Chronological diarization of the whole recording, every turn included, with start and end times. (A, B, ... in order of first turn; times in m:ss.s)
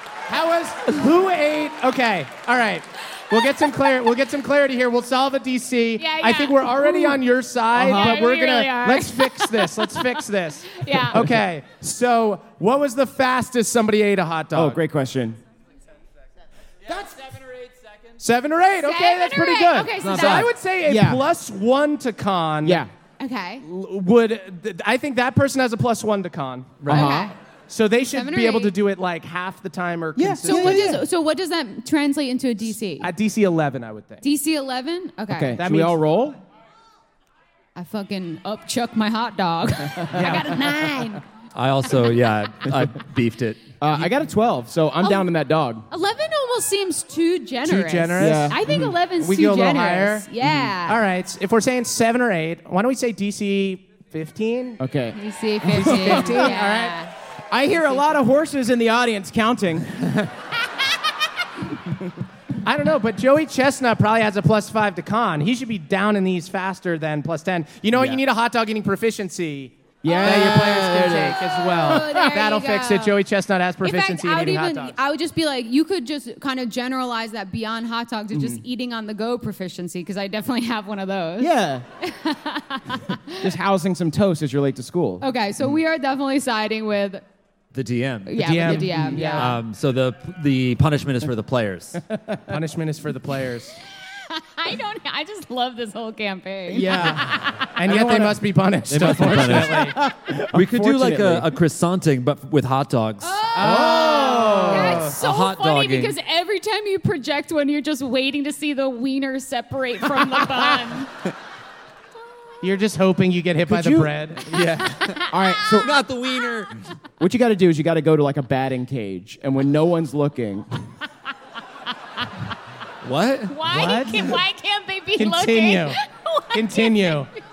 0:00.3-0:14.8 A
0:06.0-0:07.2 B
0:07.7-0:08.2 C
0:07.8-0:10.2 B
0:10.7-0:11.2 B
0:14.5-0:15.4 C
0:18.2-0:22.9 A
0:18.8-0:20.5 B
0:20.0-0:20.5 D
0:20.8-0:21.2 C
0:22.6-0:22.9 C
0:23.2-0:23.6 B
0:23.6-0:27.1 A
0:26.8-0:27.1 D
0:26.8-0:27.3 C
0:26.9-0:27.4 B
0:27.7-0:31.0 A
0:28.1-0:28.7 B
0:30.1-0:31.0 C
0:30.4-0:33.1 B
0:33.0-0:34.2 A
0:34.2-0:35.6 B
0:35.3-0:36.4 C
0:35.6-0:36.0 A
0:37.7-0:41.2 B
0:40.1-0:40.7 A
0:41.5-0:44.1 D
0:43.8-0:45.8 C
0:45.0-0:45.3 B
0:45.9-0:51.0 B
0:47.6-0:50.3 A
0:48.2-0:48.9 C
0:50.4-0:50.7 C
0:50.8-0:54.8 A
0:54.8-0:56.6 C
0:55.1-0:57.1 B
0:55.8-0:57.0 A
0:57.5-1:00.0 C
1:02.6-1:15.0 A
1:07.9-1:08.2 D
1:10.0-1:12.5 C
1:10.0-1:13.2 B
1:13.8-1:23.5 B
1:18.3-1:18.6 C
1:21.4-1:21.8 C
1:23.4-1:25.2 C
1:25.2-1:27.2 B
1:27.7-1:28.5 D
1:28.2-1:29.5 B
1:28.4-1:29.5 A
1:28.6-1:29.4 C
1:29.2-1:32.0 D
1:32.1-1:32.4 C
1:32.5-1:33.8 A
1:34.3-1:37.7 B
1:36.7-1:38.4 C
1:37.8-1:40.0 A
1:38.9-1:40.0 D
1:39.1-1:41.6 C
1:40.5-1:43.4 D
1:43.2-1:51.1 B
1:43.6-1:45.1 A
1:43.6-1:45.1 C
1:45.1-1:46.1 D
1:52.6-1:54.4 A
1:53.7-1:54.2 C
1:54.4-1:56.7 D
1:55.0-1:55.8 B
1:55.3-1:55.9 C
1:57.2-2:00.9 C
2:03.0-2:03.6 D
2:03.5-2:07.2 B
2:03.6-2:04.4 A
2:05.2-2:06.0 A
2:06.5-2:07.3 A